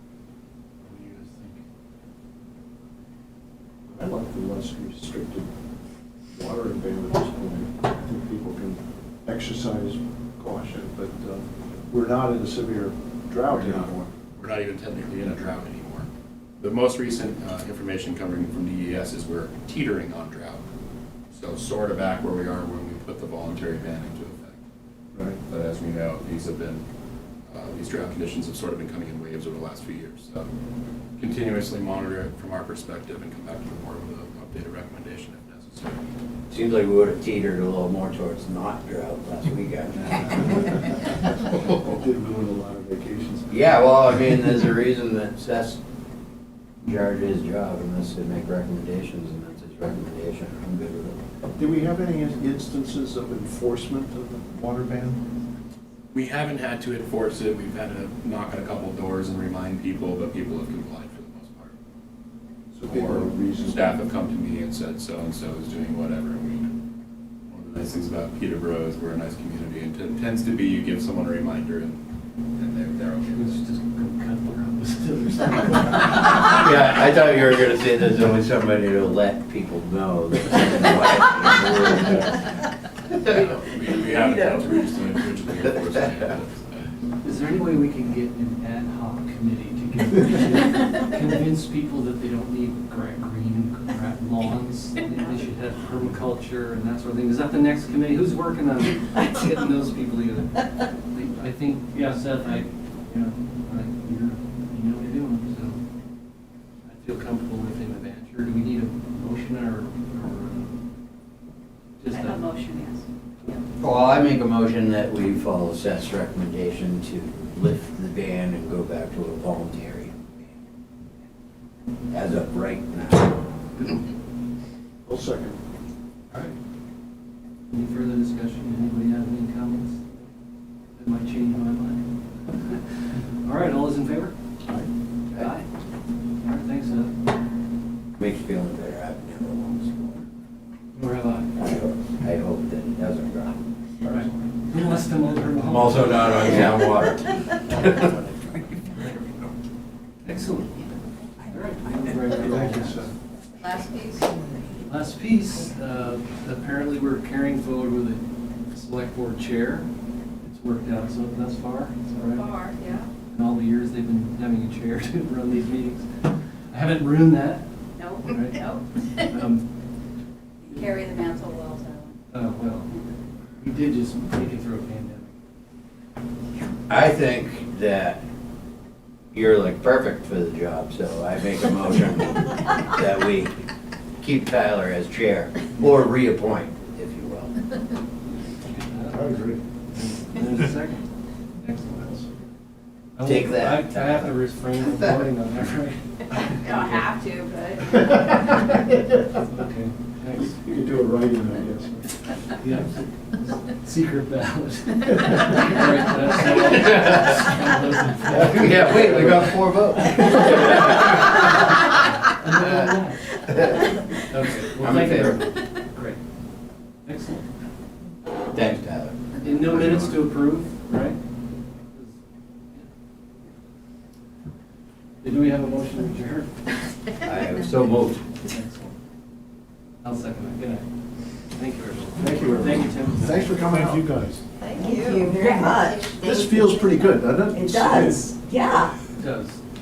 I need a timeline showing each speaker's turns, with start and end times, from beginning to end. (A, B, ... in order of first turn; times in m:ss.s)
0:00.9-0:01.5 A
0:01.2-0:01.5 B
0:03.9-0:05.5 B
0:06.3-0:14.1 B
0:13.5-0:16.1 A
0:16.6-0:20.6 A
0:21.3-0:24.6 A
0:25.4-0:26.8 A
0:27.5-0:30.5 A
0:31.2-0:36.0 A
0:36.5-0:41.0 C
0:41.5-0:43.7 B
0:43.5-0:45.8 C
0:46.8-0:51.2 C
0:51.6-0:55.2 B
0:56.1-1:01.8 A
1:02.7-1:03.9 B
1:02.8-1:06.7 A
1:07.4-1:13.6 A
1:13.3-1:16.5 D
1:16.3-1:22.4 C
1:23.1-1:26.9 A
1:27.2-1:45.8 D
1:46.9-1:50.7 D
1:52.0-1:52.4 D
1:52.1-1:53.6 E
1:53.8-2:00.5 C
2:02.1-2:03.4 C
2:05.0-2:05.6 B
2:06.3-2:06.6 D
2:07.7-2:10.3 D
2:10.9-2:12.8 D
2:13.4-2:14.3 D
2:15.3-2:15.7 D
2:16.4-2:17.1 D
2:18.2-2:20.3 C
2:20.9-2:21.5 D
2:21.6-2:23.6 C
2:24.0-2:26.8 D
2:25.6-2:28.4 C
2:30.2-2:30.9 D
2:31.5-2:33.1 D
2:32.3-2:33.1 B
2:33.6-2:34.3 E
2:34.9-2:39.9 D
2:40.4-2:42.6 D
2:42.3-2:43.1 E
2:43.3-2:46.1 D
2:46.7-2:47.6 D
2:48.0-2:48.8 E
2:48.2-2:48.6 D
2:49.2-2:49.6 D
2:50.6-2:52.2 E
2:52.3-2:52.9 D
2:53.6-2:55.3 D
2:56.9-2:58.2 C
2:59.3-3:03.5 C
3:04.2-3:07.6 C
3:08.6-3:09.4 D
3:09.1-3:09.6 B
3:09.9-3:11.0 D
3:11.6-3:12.3 D
3:13.1-3:17.0 D
3:13.2-3:14.3 C
3:16.4-3:18.5 E
3:19.3-3:20.6 D
3:20.5-3:22.1 B
3:22.6-3:36.2 D
3:26.7-3:27.4 C
3:28.3-3:31.2 C
3:32.5-3:32.9 C
3:33.4-3:33.8 C
3:34.6-3:35.5 C
3:37.0-3:37.4 D
3:38.5-3:40.2 C
3:39.4-3:41.2 D
3:41.9-3:42.2 D
3:45.2-3:46.5 D
3:47.2-3:48.3 C
3:48.5-3:48.9 D
3:50.0-3:50.8 D
3:51.5-3:53.7 D
3:52.2-3:54.4 B
3:54.6-3:56.2 E
3:54.7-3:58.9 F
3:56.2-3:58.4 B
3:59.2-3:59.6 D